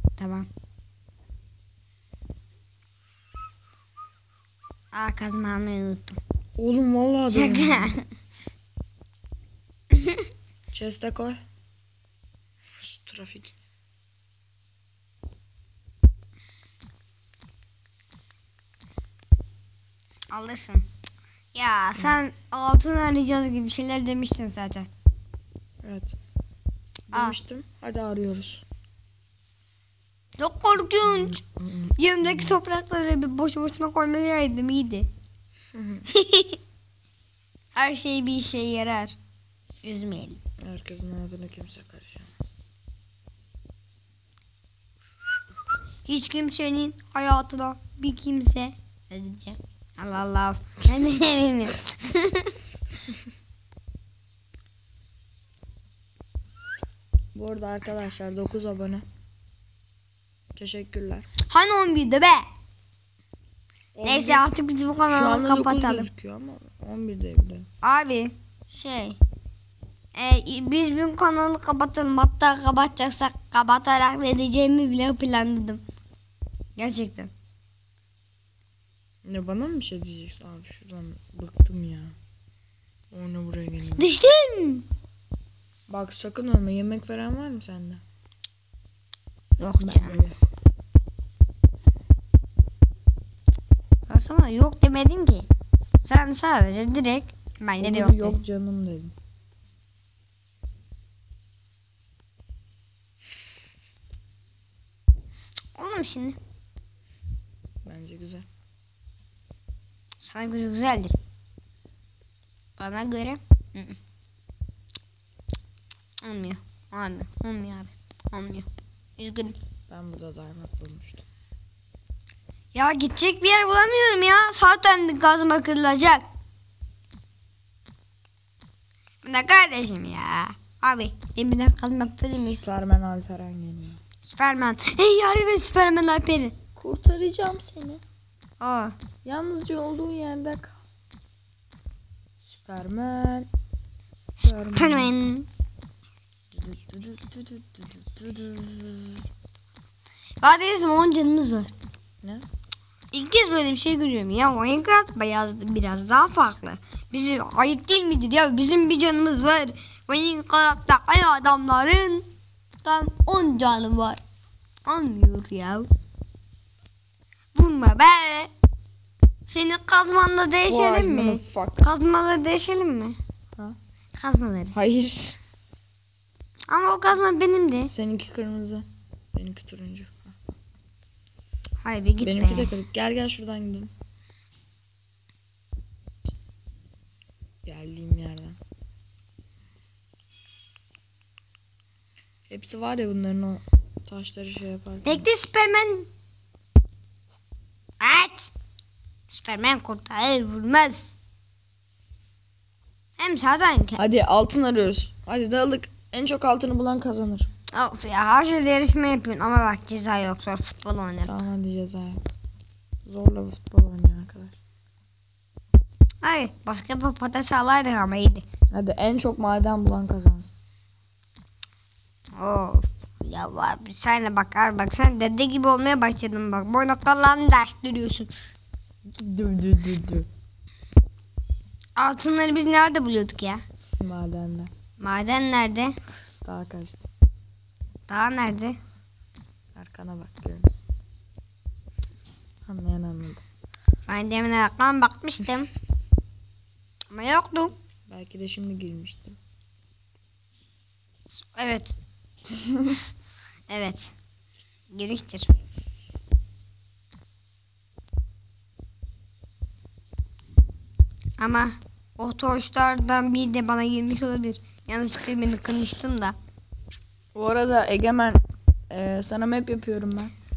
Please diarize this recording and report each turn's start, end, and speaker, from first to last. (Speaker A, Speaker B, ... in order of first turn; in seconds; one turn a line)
Speaker A: 0.2-0.5
Speaker A: 4.9-6.2
Speaker B: 6.6-7.9
Speaker A: 7.3-8.1
Speaker A: 9.9-10.2
Speaker B: 10.7-11.4
Speaker B: 12.7-13.5
Speaker A: 20.3-20.9
Speaker A: 21.5-24.9
Speaker B: 25.8-26.1
Speaker A: 27.1-27.4
Speaker B: 27.1-28.6
Speaker A: 30.4-31.4
Speaker B: 31.0-32.6
Speaker A: 31.9-35.1
Speaker B: 35.7-36.1
Speaker A: 36.1-36.6
Speaker A: 37.7-39.1
Speaker A: 39.8-40.4
Speaker B: 40.6-42.4
Speaker A: 46.0-52.6
Speaker B: 57.3-59.0
Speaker B: 60.5-61.2
Speaker A: 61.4-62.5
Speaker B: 63.9-64.5
Speaker A: 64.0-66.1
Speaker B: 65.0-67.7
Speaker A: 67.8-69.2
Speaker A: 70.1-75.8
Speaker A: 76.8-77.3
Speaker B: 79.2-82.1
Speaker B: 83.1-84.1
Speaker A: 84.0-84.8
Speaker B: 85.9-88.0
Speaker A: 89.6-90.2
Speaker B: 89.8-90.4
Speaker A: 94.1-95.5
Speaker A: 96.0-98.4
Speaker B: 97.8-99.1
Speaker A: 105.8-106.4
Speaker B: 107.8-108.5
Speaker A: 110.2-111.2
Speaker A: 112.8-114.0
Speaker A: 116.2-118.7
Speaker A: 119.2-119.5
Speaker B: 119.9-121.2
Speaker A: 122.7-126.2
Speaker A: 129.2-132.7
Speaker B: 132.4-134.0
Speaker A: 134.2-136.5
Speaker B: 136.8-138.0
Speaker A: 138.6-139.0
Speaker B: 139.2-140.8
Speaker B: 142.4-143.5
Speaker B: 144.4-145.1
Speaker A: 144.4-145.5
Speaker B: 146.5-149.2
Speaker A: 150.4-151.7
Speaker A: 153.1-162.3
Speaker A: 162.8-164.2
Speaker A: 164.8-165.9
Speaker A: 167.5-168.5
Speaker A: 169.5-173.2
Speaker B: 170.6-171.9
Speaker A: 174.2-174.7
Speaker B: 174.7-175.4
Speaker A: 176.7-177.9
Speaker B: 177.9-180.3
Speaker A: 181.8-182.7
Speaker B: 182.2-183.9
Speaker B: 187.7-188.6
Speaker B: 192.5-195.3
Speaker A: 195.0-196.1
Speaker A: 198.0-198.5
Speaker A: 199.3-201.1
Speaker A: 203.2-204.0
Speaker B: 204.0-207.5
Speaker A: 207.7-211.3
Speaker B: 211.2-212.2
Speaker B: 213.1-214.6
Speaker A: 216.2-218.4
Speaker B: 218.7-220.5
Speaker A: 222.3-228.3
Speaker B: 229.2-230.3
Speaker A: 232.0-233.6
Speaker B: 234.0-234.7
Speaker A: 235.0-236.0
Speaker B: 236.4-237.0
Speaker A: 238.1-238.8
Speaker B: 239.7-240.8
Speaker B: 242.7-243.4
Speaker A: 244.1-245.7
Speaker A: 247.1-247.8
Speaker B: 248.1-249.4
Speaker A: 251.3-252.0
Speaker A: 253.7-254.1
Speaker A: 254.9-255.5
Speaker A: 261.4-266.4
Speaker B: 267.3-270.3